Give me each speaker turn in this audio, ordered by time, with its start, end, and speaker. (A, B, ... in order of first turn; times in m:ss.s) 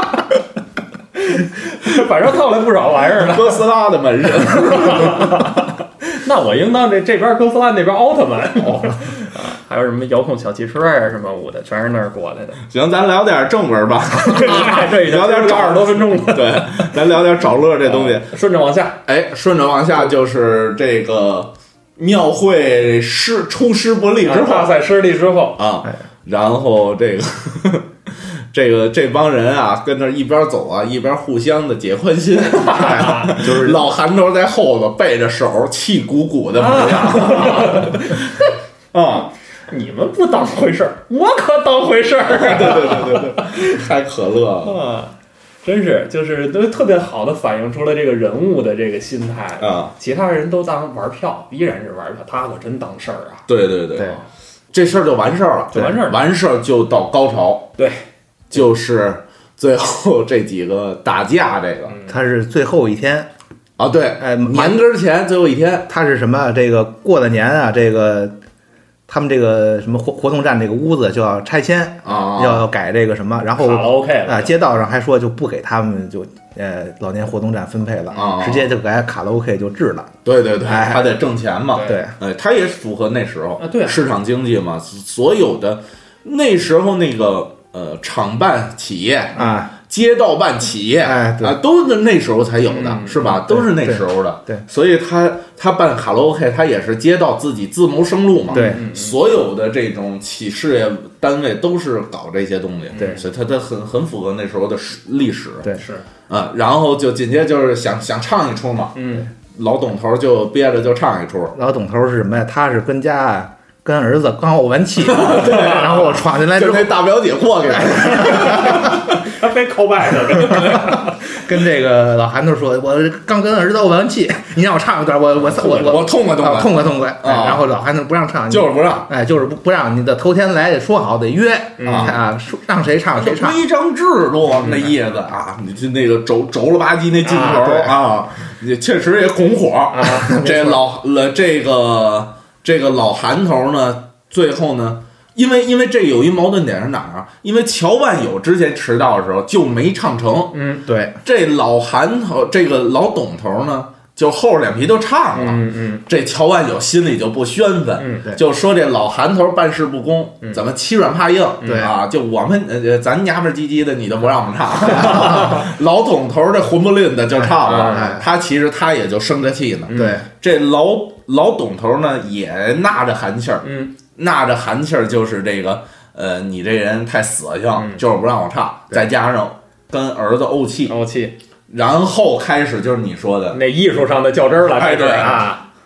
0:01.2-0:03.6 A
0:03.2-0:05.4 B
0:04.6-0:12.6 A
0:08.6-0:09.0 B
0:12.7-0:18.3 B
0:14.2-0:16.7 A
0:17.8-0:19.0 A
0:19.0-0:24.8 B
0:24.2-0:25.6 A
0:25.6-0:27.9 B
0:28.5-0:38.3 B
0:32.6-0:33.3 A
0:32.9-0:33.8 C
0:36.6-0:38.3 A
0:38.9-0:39.3 B
0:39.7-0:43.8 A
0:42.3-0:44.8 B
0:44.6-0:45.1 A
0:45.6-0:53.4 A
0:49.6-0:49.9 B
0:53.5-0:54.2 B
0:54.7-0:57.7 B
0:55.7-0:56.2 A
0:57.8-0:58.0 A
0:58.5-1:02.0 B
1:01.9-1:02.2 A
1:02.0-1:03.3 C
1:03.8-1:05.9 B
1:04.2-1:04.8 C
1:05.9-1:08.4 C
1:09.1-1:21.1 C
1:12.0-1:12.7 B
1:13.6-1:14.6 A
1:18.1-1:18.7 B
1:20.2-1:45.7 B
1:21.7-1:22.0 A
1:21.8-1:22.1 C
1:23.6-1:24.0 A
1:29.3-1:29.7 C
1:31.0-1:31.6 C
1:32.7-1:33.4 A
1:33.5-1:34.6 C
1:38.5-1:38.8 C
1:38.5-1:39.2 A
1:42.9-1:43.2 A
1:45.7-1:46.0 A
1:46.3-1:49.0 B
1:48.9-1:49.3 A
1:49.5-1:51.5 B
1:51.5-1:57.0 C
1:55.0-1:59.2 B
1:57.7-1:58.8 C
1:58.5-2:01.1 A
2:01.3-2:13.6 C
2:05.4-2:07.7 B
2:08.5-2:09.1 B
2:11.8-2:12.2 A
2:11.8-2:12.2 B
2:13.2-2:30.6 B
2:14.6-2:14.9 A
2:17.2-2:17.8 A
2:17.6-2:17.9 C
2:19.9-2:20.4 A
2:20.2-2:20.8 C
2:30.5-2:30.8 A
2:30.9-2:31.2 C
2:31.2-3:00.9 B
2:35.3-2:36.0 A
2:38.0-2:38.3 A
2:41.6-2:41.9 A
2:41.6-2:41.9 C
2:47.4-2:48.2 C
2:47.6-2:48.2 A
2:49.9-2:50.2 A
2:49.9-2:50.2 C
2:53.6-2:53.9 A
2:57.8-2:58.0 A
3:00.9-3:01.3 A
3:01.7-3:03.6 B
3:03.5-3:05.6 A
3:04.7-3:05.5 B